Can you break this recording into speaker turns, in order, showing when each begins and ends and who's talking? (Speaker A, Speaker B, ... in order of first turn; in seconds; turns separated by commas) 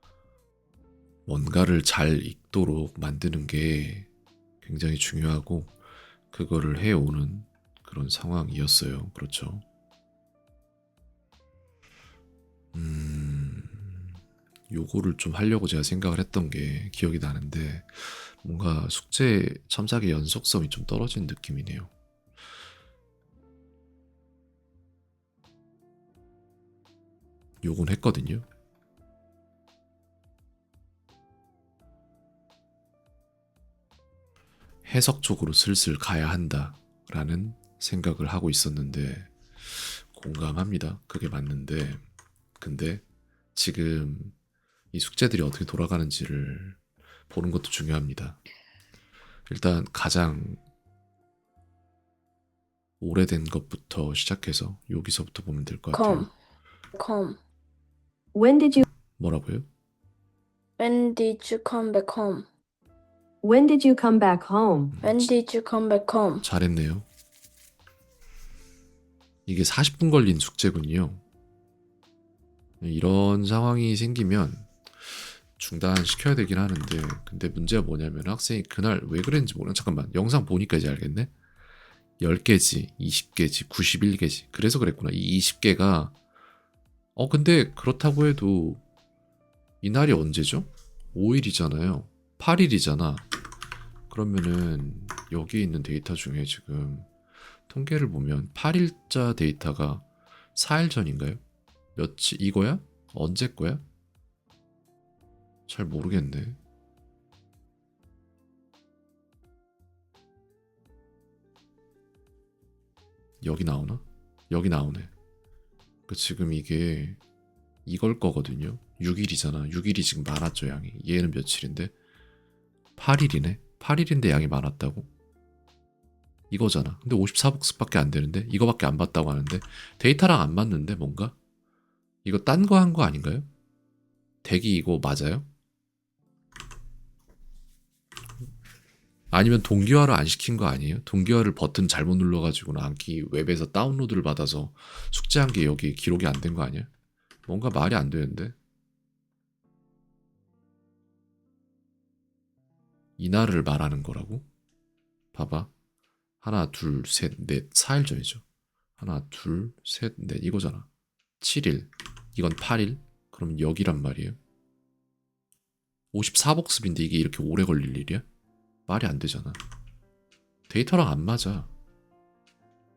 Speaker A: 1.3-4.1, Speaker A: 4.6-5.8, Speaker A: 6.3-9.6, Speaker A: 12.7-14.2, Speaker A: 14.7-21.9, Speaker A: 27.6-28.4, Speaker A: 34.9-42.0, Speaker A: 42.6-43.0, Speaker A: 43.5-44.4, Speaker A: 44.9-48.4, Speaker A: 49.5-50.6, Speaker A: 53.0-56.3, Speaker B: 55.9-56.3, Speaker B: 57.0-57.4, Speaker C: 58.3-58.8, Speaker A: 59.2-59.7, Speaker B: 60.8-62.5, Speaker C: 63.4-64.9, Speaker A: 64.9-65.3, Speaker B: 65.0-66.4, Speaker A: 66.4-67.1, Speaker A: 69.5-71.2, Speaker A: 72.8-81.3, Speaker A: 82.2-86.2, Speaker A: 87.2-88.8, Speaker A: 89.8-93.3, Speaker A: 94.1-97.1, Speaker A: 97.7-101.4, Speaker A: 102.0-103.8, Speaker A: 105.7-106.6, Speaker A: 113.4-115.1, Speaker A: 116.1-117.2, Speaker A: 117.9-121.9, Speaker A: 123.0-125.1, Speaker A: 126.5-131.4, Speaker A: 132.2-133.5, Speaker A: 134.4-135.5, Speaker A: 139.3-146.9, Speaker A: 147.5-148.6, Speaker A: 153.2-154.5, Speaker A: 155.3-155.7, Speaker A: 156.4-158.4, Speaker A: 159.0-160.9, Speaker A: 161.4-164.4, Speaker A: 166.1-168.2, Speaker A: 168.9-169.6, Speaker A: 170.7-171.7